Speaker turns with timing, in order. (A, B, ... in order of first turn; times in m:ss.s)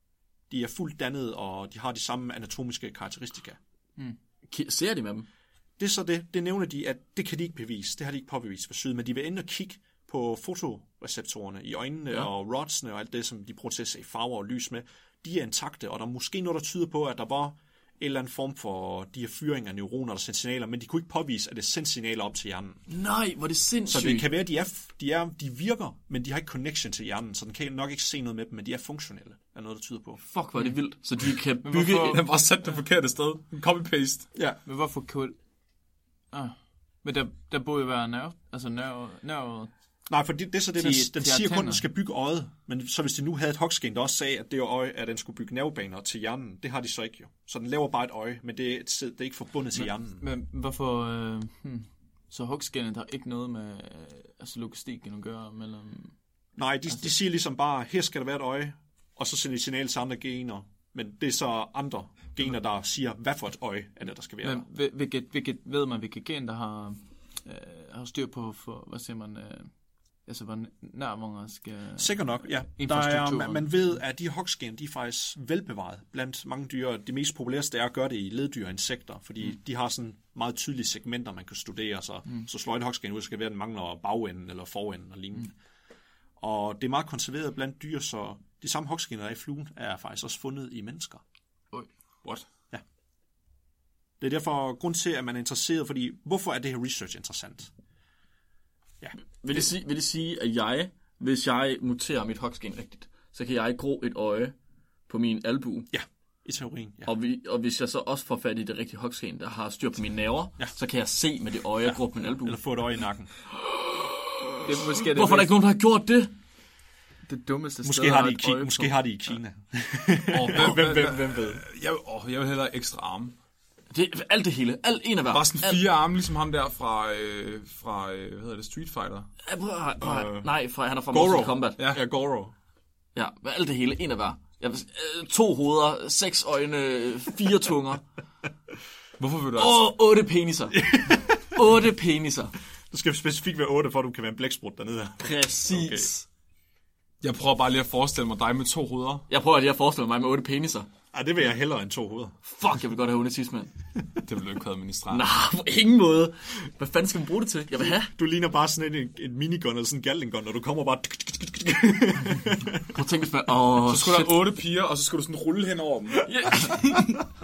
0:00.5-0:03.6 A
0:04.5-0:05.3 B
0:05.8-0:22.8 A
0:22.9-0:24.3 B
0:23.9-0:30.2 A
0:30.2-0:32.2 B
0:31.6-0:32.2 C
0:32.0-0:34.3 D
0:34.3-0:34.6 A
0:34.6-0:35.4 C
0:36.3-0:39.7 C
0:40.1-0:50.2 A
0:40.8-0:41.9 C
0:49.7-0:56.2 C
0:56.6-1:04.7 A
1:04.4-1:09.7 C
1:10.2-1:13.9 C
1:12.0-1:25.5 A
1:26.4-1:31.2 A
1:34.2-1:37.7 A
1:39.0-1:39.6 A
1:39.4-1:44.6 B
1:45.1-1:45.9 B
1:45.9-1:47.1 A
1:47.1-1:52.6 B
1:51.8-1:53.3 A
1:54.6-1:55.6 C
1:55.0-1:56.3 B
1:57.3-1:59.0 C
1:57.8-2:01.6 A
2:00.3-2:03.4 D
2:03.9-2:05.8 B
2:05.3-2:09.3 D
2:09.5-2:11.8 B
2:10.0-2:10.5 A
2:11.1-2:12.5 A
2:11.8-2:12.0 D
2:13.2-2:18.0 B
2:19.2-2:19.9 D
2:19.6-2:22.6 B
2:20.7-2:21.5 A
2:22.9-2:26.1 A
2:25.2-2:26.2 B
2:27.2-2:29.3 D
2:29.3-2:30.9 B
2:31.1-2:32.4 A
2:32.5-2:33.7 B
2:34.3-2:35.3 D
2:35.1-2:38.1 B
2:38.1-2:42.9 A
2:42.9-2:44.3 B
2:43.8-2:46.3 D
2:46.2-2:47.2 B